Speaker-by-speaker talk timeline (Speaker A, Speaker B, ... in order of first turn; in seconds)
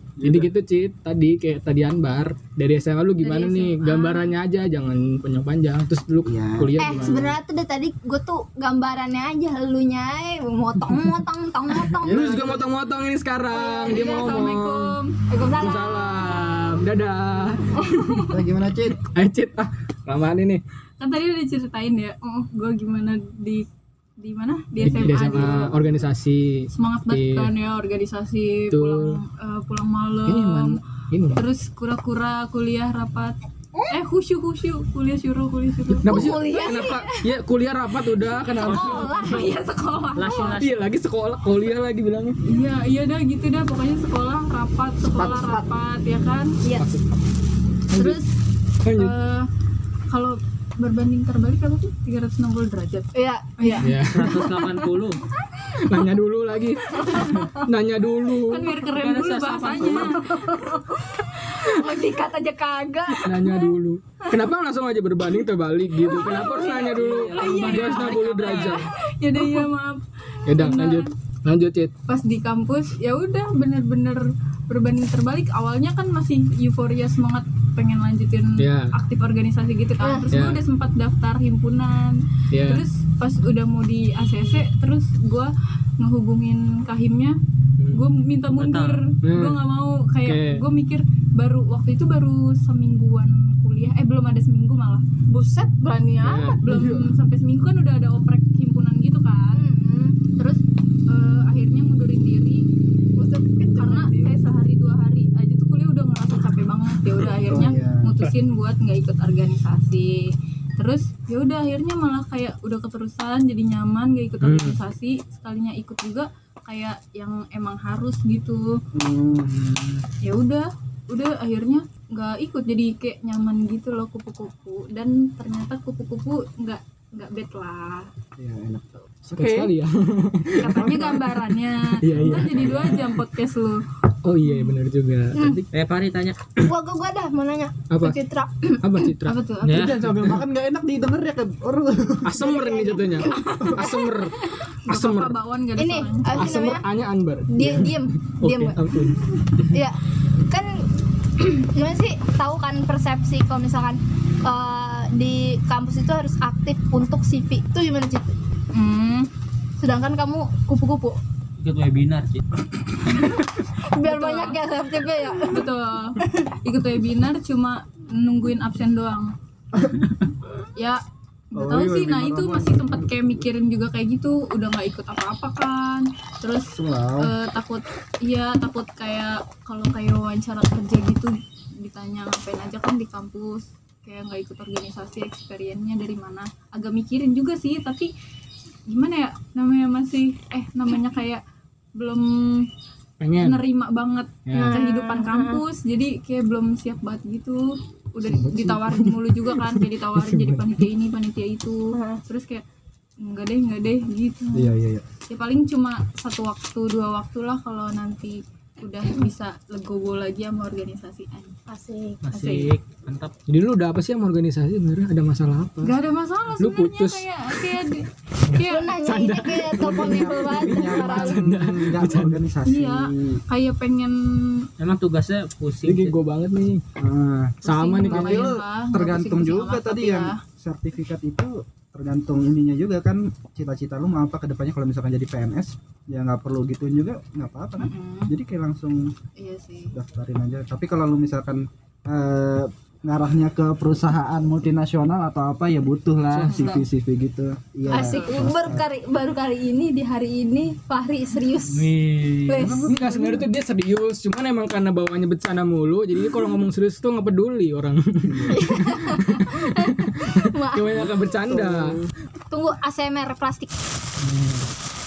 Speaker A: 0.2-0.5, 6.2-7.3, 12.1-12.6, 18.3-19.0, 24.9-25.5, 45.3-45.6, 107.4-108.1, 118.9-120.0, 128.4-129.7, 130.7-131.3, 132.1-133.0, 139.7-142.5, 169.7-170.2, 171.5-173.4, 176.7-177.3, 198.3-198.8, 204.5-205.0, 219.7-223.4, 227.0-239.1, 239.9-248.8, 252.6-253.4, 258.3-258.6, 261.4-262.1
Speaker B: 0.2-7.3, 11.9-15.0, 15.6-17.9, 19.1-20.6, 24.8-27.5, 28.7-29.2, 30.2-31.4, 36.0-39.5, 40.5-42.4, 46.8-47.2, 47.9-48.2, 48.8-49.2, 53.8-54.5, 55.8-58.8, 63.2-68.9, 70.5-71.9, 78.6-78.9, 80.3-80.6, 82.5-82.8, 89.2-89.6, 90.2-90.6, 96.2-97.1, 114.4-114.8, 129.3-131.4, 132.0-133.2, 134.2-135.7, 137.9-138.2, 138.8-139.4, 142.2-145.4, 146.3-149.6, 193.2-193.7, 194.4-194.8, 198.9-200.8, 213.5-215.9, 216.6-217.8, 218.5-222.4, 225.8-226.8, 227.6-228.6, 246.3-246.8, 252.8-262.0
Speaker C: 3.2-4.0, 13.6-15.2, 21.0-23.6, 24.2-25.8, 26.7-30.8, 31.3-33.3, 33.9-36.1, 42.4-46.6, 48.9-49.5, 50.1-54.0, 58.4-60.8, 66.1-71.1, 72.1-87.4, 87.9-99.6, 100.4-102.7, 103.2-118.8, 120.2-128.1, 130.5-133.8, 139.2-139.8, 144.8-146.5, 158.7-159.2, 164.0-164.6, 165.5-169.3, 170.8-171.0, 171.5-188.1, 188.9-191.4, 191.9-192.7, 193.4-202.6, 203.2-204.7, 205.3-211.6, 212.3-212.7, 215.8-219.0, 222.6-224.7, 227.6-230.4, 237.8-238.3, 239.3-239.9, 246.4-246.8, 247.9-248.6
Speaker D: 3.3-4.2, 6.8-12.7, 13.5-14.4, 15.3-16.7, 17.8-18.3, 36.0-37.3, 38.5-40.6, 45.1-45.6, 46.6-46.9, 47.9-48.3, 53.1-53.9, 56.9-57.7, 59.8-63.7, 66.1-66.7, 80.0-80.3, 99.5-100.4, 103.2-104.3, 135.3-135.6, 136.6-139.1, 142.4-144.3, 145.8-146.8, 147.5-148.8, 149.7-150.0, 150.5-150.8, 151.4-158.3, 159.8-161.2, 163.2-165.7, 194.5-195.6, 201.9-202.2, 211.7-212.3, 218.6-221.4, 247.9-251.9, 252.5-252.9, 258.5-261.1, 262.5-263.7
Speaker E: 38.6-39.5, 40.1-40.8, 54.1-55.2, 58.8-60.2, 66.6-68.8, 88.5-89.0, 135.7-136.5, 139.6-140.4, 161.6-162.4, 212.2-213.3, 224.8-226.2, 251.7-252.8, 264.3-264.6